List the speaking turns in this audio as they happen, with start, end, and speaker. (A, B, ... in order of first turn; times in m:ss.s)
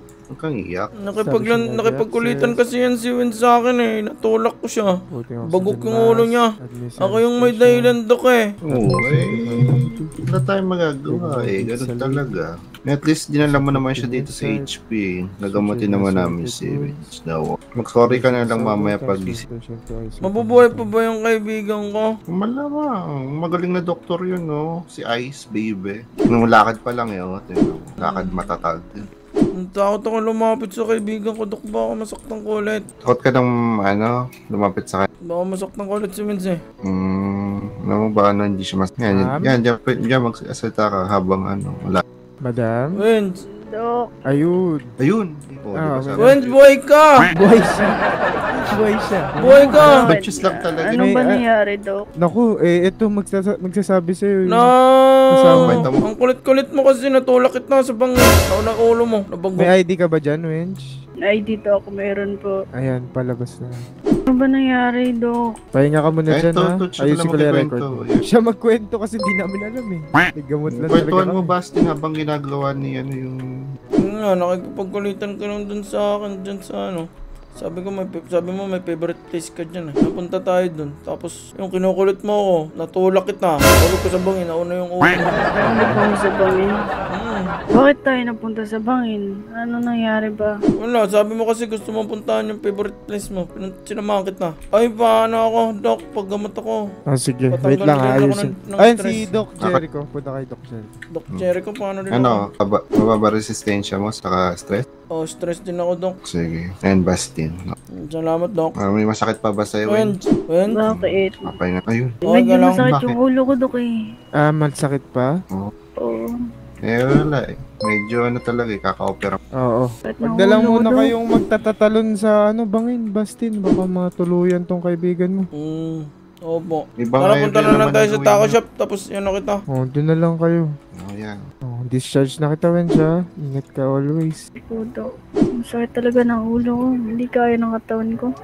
0:00.3-0:00.9 A
0:01.0-0:04.9 B
0:01.2-0:02.6 C
0:05.1-0:08.0 C
0:05.5-0:06.5 B
0:07.0-0:08.5 B
0:08.7-0:10.2 C
0:08.7-0:19.4 A
0:11.1-0:12.3 C
0:13.5-0:14.7 C
0:15.5-0:17.0 C
0:18.0-0:20.9 C
0:20.2-0:22.1 B
0:22.3-0:29.1 A
0:28.0-0:28.4 B
0:29.6-0:32.8 B
0:33.0-0:35.1 A
0:35.3-0:36.6 B
0:36.9-0:42.0 A
0:39.1-0:39.5 C
0:42.4-0:43.0 C
0:43.0-0:43.4 B
0:43.7-0:44.0 D
0:44.3-0:44.9 C
0:45.0-0:46.6 A
0:45.8-0:46.4 C
0:46.2-0:47.2 B
0:47.3-0:48.0 C
0:48.6-0:50.1 C
0:49.4-0:50.0 B
0:49.6-0:52.0 D
0:49.9-0:51.0 A
0:50.9-0:51.4 C
0:52.2-0:54.7 C
0:54.5-0:59.7 B
0:55.3-0:55.9 C
0:55.6-0:56.0 A
0:59.6-1:00.8 C
1:01.3-1:02.5 D
1:02.8-1:03.7 C
1:04.3-1:05.4 D
1:05.7-1:11.5 C
1:06.3-1:08.2 A
1:10.7-1:13.4 A
1:14.0-1:25.3 B
1:25.6-1:26.8 D
1:25.6-1:26.0 C
1:27.1-1:27.6 B
1:27.7-1:30.5 D
1:30.8-1:36.8 B
1:37.1-1:40.9 C
1:37.5-1:39.3 B
1:41.1-1:42.4 B
1:42.1-1:44.8 A
1:45.1-1:46.2 B
1:46.3-1:47.8 A
1:48.1-1:48.7 B
1:48.8-1:50.2 A
1:49.9-1:50.8 B
1:50.7-1:51.5 D
1:50.9-1:52.2 A
1:52.3-1:53.9 D
1:52.3-1:52.8 B
1:52.8-1:53.2 A
1:54.4-1:55.3 C
1:56.0-1:56.3 D
1:56.8-1:59.4 A
1:59.6-2:05.5 C
2:00.1-2:01.1 D
2:05.6-2:09.6 B
2:07.0-2:08.6 A
2:09.7-2:10.7 C
2:11.0-2:11.4 A
2:11.7-2:14.4 C
2:14.7-2:15.0 D
2:15.6-2:18.3 D